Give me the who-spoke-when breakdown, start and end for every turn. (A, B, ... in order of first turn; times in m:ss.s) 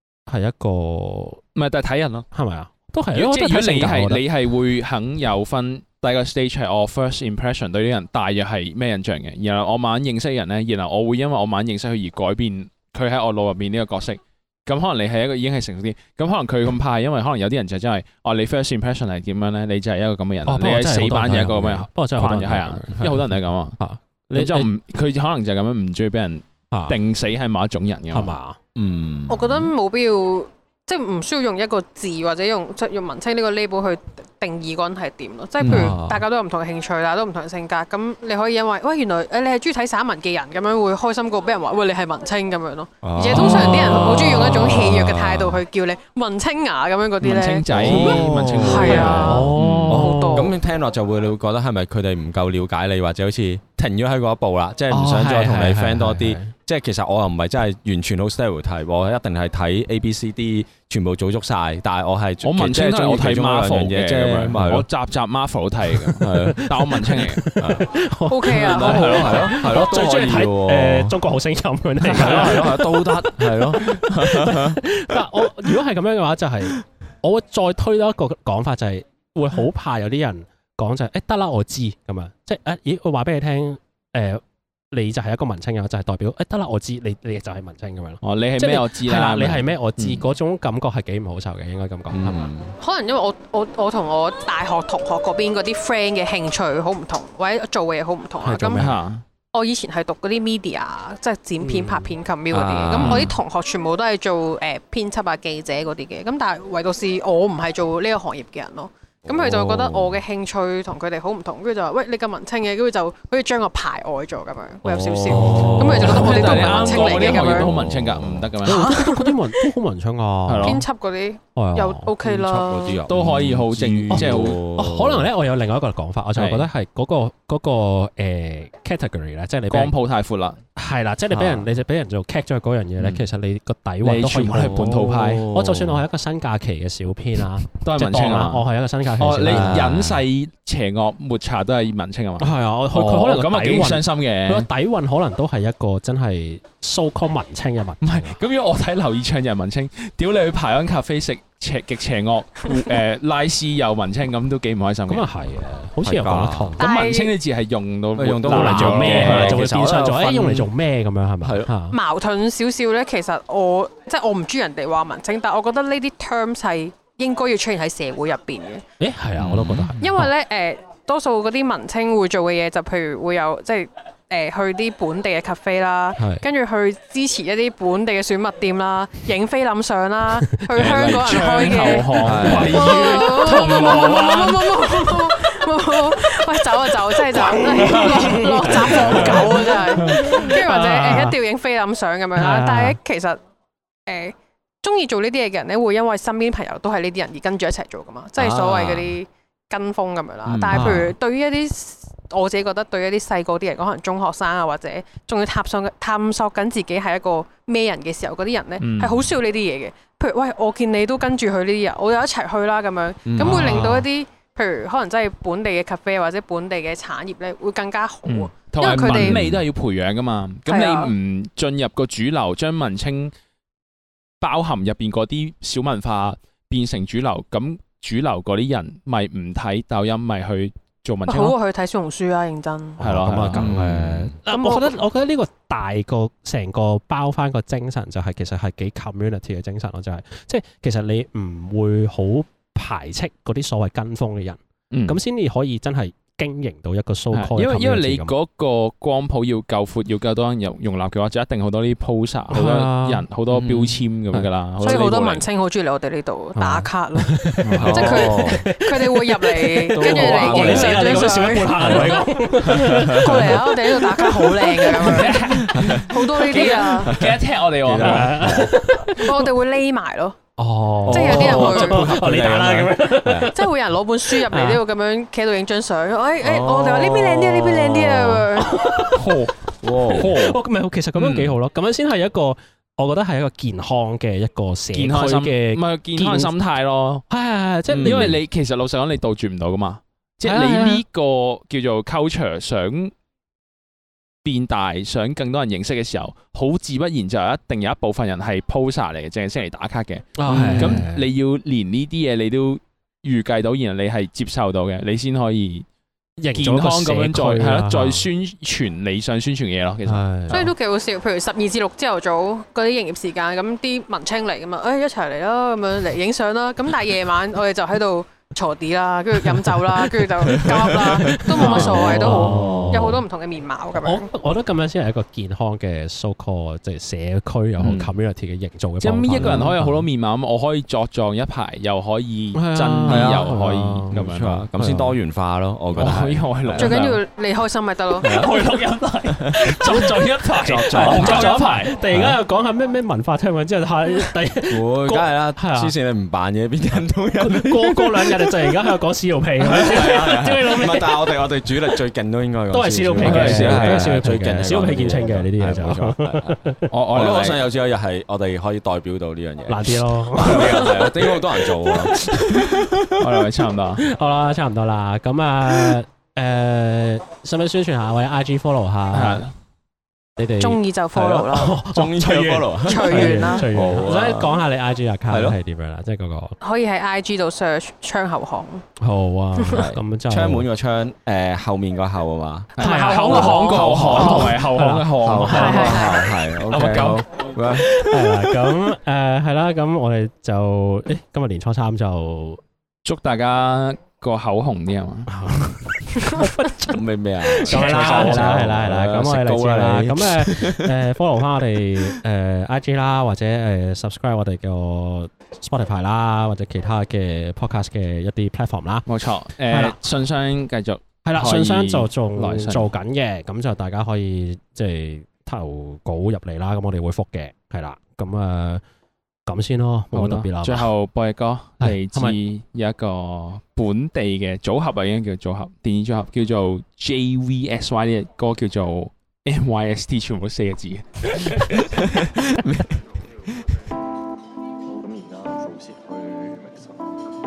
0:00.3-0:01.4 A
0:01.5-0:02.2 B
0:02.3-0:04.2 A
0:03.1-0:23.8 B
0:20.4-0:23.2 A
0:23.8-0:24.7 A
0:24.3-0:28.3 B
0:26.7-0:27.0 A
0:28.1-0:28.6 A
0:28.7-0:29.7 C
0:29.3-0:50.5 D
0:35.6-0:36.1 C
0:35.6-0:36.2 A
0:43.0-0:45.6 C
0:43.4-0:44.0 A
0:47.2-0:50.0 B
0:47.7-1:04.8 C
0:48.8-0:50.5 A
0:54.9-0:56.5 A
1:02.4-1:07.5 B
1:06.0-1:07.9 C
1:06.3-1:32.4 A
1:08.3-1:09.4 D
1:08.5-1:11.2 C
1:12.0-1:14.8 C
1:28.2-1:30.2 B
1:32.1-1:32.7 C
1:32.8-1:38.9 D
1:38.4-1:39.0 A
1:38.8-1:39.2 B
1:39.5-1:57.7 D
1:41.6-1:42.1 A
1:42.5-1:43.4 C
1:43.0-1:43.3 B
1:49.3-1:50.2 C
1:54.8-1:58.5 C
1:55.3-1:57.0 A
1:55.8-1:59.2 B
1:58.6-2:00.8 A
1:58.7-1:59.6 D
2:00.5-2:00.8 B
2:00.6-2:03.0 D
2:01.5-2:02.1 A
2:02.2-2:05.3 C
2:03.1-2:04.6 B
2:04.1-2:09.9 A
2:06.3-2:06.7 B
2:09.7-2:10.6 B
2:10.8-2:20.0 A
2:11.3-2:11.6 C
2:13.0-2:13.2 C
2:14.0-2:15.4 B
2:14.5-2:16.0 C
2:17.8-2:18.6 B
2:19.2-2:24.7 B
2:19.4-2:20.2 C
2:22.4-2:28.4 A
2:28.0-2:35.3 B
2:35.1-2:36.8 A
2:36.0-2:36.7 C
2:36.8-2:37.3 D
2:36.8-2:39.7 B
2:38.2-2:40.7 C
2:38.4-2:42.0 A
2:41.4-2:41.7 C
2:41.9-2:48.8 D
2:49.0-2:50.3 A
2:49.4-2:50.0 B
2:49.5-2:49.9 C
2:50.0-3:13.4 D
3:00.7-3:04.6 B
3:02.2-3:04.3 A
3:02.2-3:03.0 C
3:07.1-3:11.4 A
3:08.8-3:09.5 B
3:10.0-3:10.4 B
3:12.4-3:13.0 A
3:14.1-3:39.4 D
3:18.4-3:19.2 C
3:20.4-3:21.0 C
3:20.7-3:21.1 A
3:28.8-3:29.3 B
3:33.3-3:33.9 B
3:33.4-3:34.0 A
3:38.3-3:43.3 B
3:38.9-3:39.6 C
3:40.7-3:41.1 D
3:44.4-3:51.5 B
3:51.3-3:53.0 D
3:53.0-4:08.3 A
3:53.0-3:54.1 B
3:53.3-3:54.3 C
3:54.5-3:54.9 D
4:04.9-4:05.2 B
4:07.3-4:15.4 B
4:12.5-4:13.2 A
4:13.5-4:14.0 C
4:14.8-4:17.3 D
4:16.6-4:26.0 A
4:17.6-4:17.9 B
4:17.8-4:18.6 C
4:17.9-4:22.2 D
4:19.9-4:23.6 C
4:20.6-4:21.0 B
4:23.0-4:25.3 D
4:25.0-4:28.6 B
4:25.7-4:26.1 C
4:26.0-4:27.1 D
4:27.0-4:28.8 C
4:28.0-4:29.5 A
4:29.2-4:30.4 D
4:30.6-4:33.7 A
4:31.0-4:33.5 C
4:31.1-4:32.0 D
4:33.5-4:38.8 D
4:34.2-4:34.8 A
4:36.4-4:38.3 C
4:37.6-4:38.0 A
4:38.6-4:39.4 A
4:39.1-4:40.6 B
4:39.8-4:40.4 C
4:39.9-4:46.5 A
4:41.1-4:41.5 B
4:44.9-4:47.2 B
4:47.3-4:48.4 A
4:47.9-4:48.4 C
4:47.9-4:53.1 B
4:50.4-4:51.0 A
4:54.4-5:05.8 B
5:00.4-5:01.3 A
5:00.5-5:01.1 C
5:06.4-5:08.3 A
5:06.6-5:10.6 B
5:10.0-5:10.7 A
5:10.5-5:24.3 D
5:19.4-5:23.2 A
5:20.5-5:23.2 C
5:21.7-5:22.5 B
5:23.9-5:29.9 A
5:27.8-5:28.1 B
5:29.0-5:34.7 B
5:29.4-5:30.0 C
5:32.5-5:34.2 A
5:33.0-5:36.9 C
5:34.8-5:35.2 A
5:35.9-5:37.2 B
5:36.8-5:38.3 D
5:38.2-5:38.6 C
5:38.2-5:41.9 B
5:39.5-5:45.9 A
5:40.5-5:42.4 C
5:44.7-5:48.7 C
5:47.4-5:51.5 A
5:49.7-5:56.5 C
5:49.9-5:50.2 B
5:52.7-5:56.9 A
5:53.2-5:54.1 B
5:56.9-5:57.6 B
5:57.1-6:03.0 C
5:59.6-6:02.8 A
6:03.2-6:04.0 B
6:04.0-6:09.5 A
6:09.1-6:09.5 B
6:10.4-6:10.8 A
6:10.6-6:11.8 D
6:11.1-6:14.6 C
6:11.4-6:16.6 A
6:12.8-6:13.7 D
6:15.3-6:15.6 C
6:16.6-6:18.8 D
6:19.0-6:20.7 A
6:19.7-6:22.7 C
6:22.7-6:26.1 B
6:22.8-6:26.2 A
6:22.8-6:24.4 D
6:23.7-6:24.5 C
6:25.2-6:28.8 C
6:25.5-6:26.2 D
6:26.7-6:27.2 B
6:27.7-6:32.6 A
6:33.0-6:35.3 B
6:35.3-6:49.0 A
6:36.9-6:40.9 C
6:37.7-6:38.4 B
6:49.1-6:52.9 B
6:49.6-6:50.0 A
6:51.2-6:58.8 A
6:59.5-7:00.9 A
7:00.1-7:11.9 B
7:01.8-7:02.4 A
7:12.2-7:12.9 C
7:14.9-7:17.3 E